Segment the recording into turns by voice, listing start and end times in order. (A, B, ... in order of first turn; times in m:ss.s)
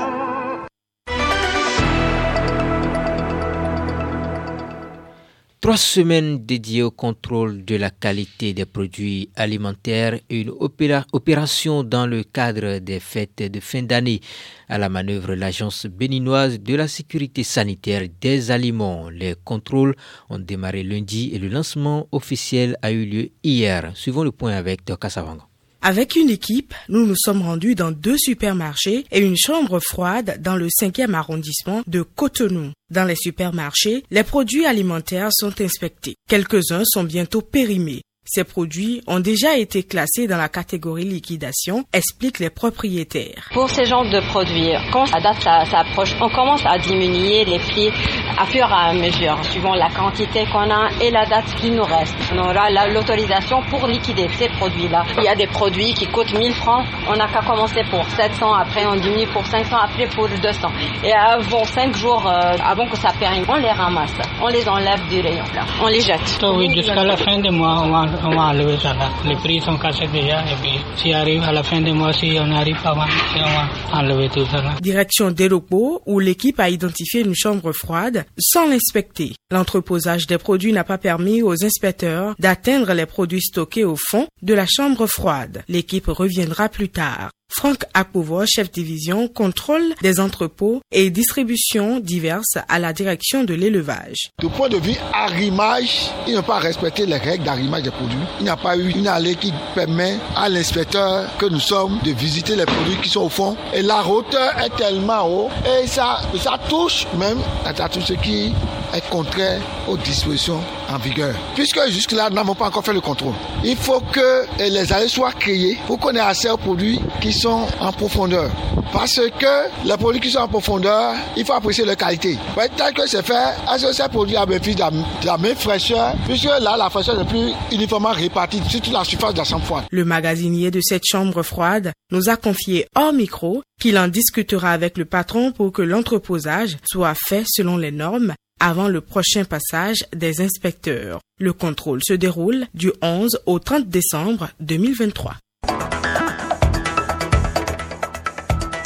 0:05.6-0:25.4 A
0:25.8-0:43.5 B
0:43.5-1:07.2 C
1:06.4-1:14.8 D
1:14.8-1:34.3 B
1:34.4-2:09.9 E
2:09.9-2:25.4 B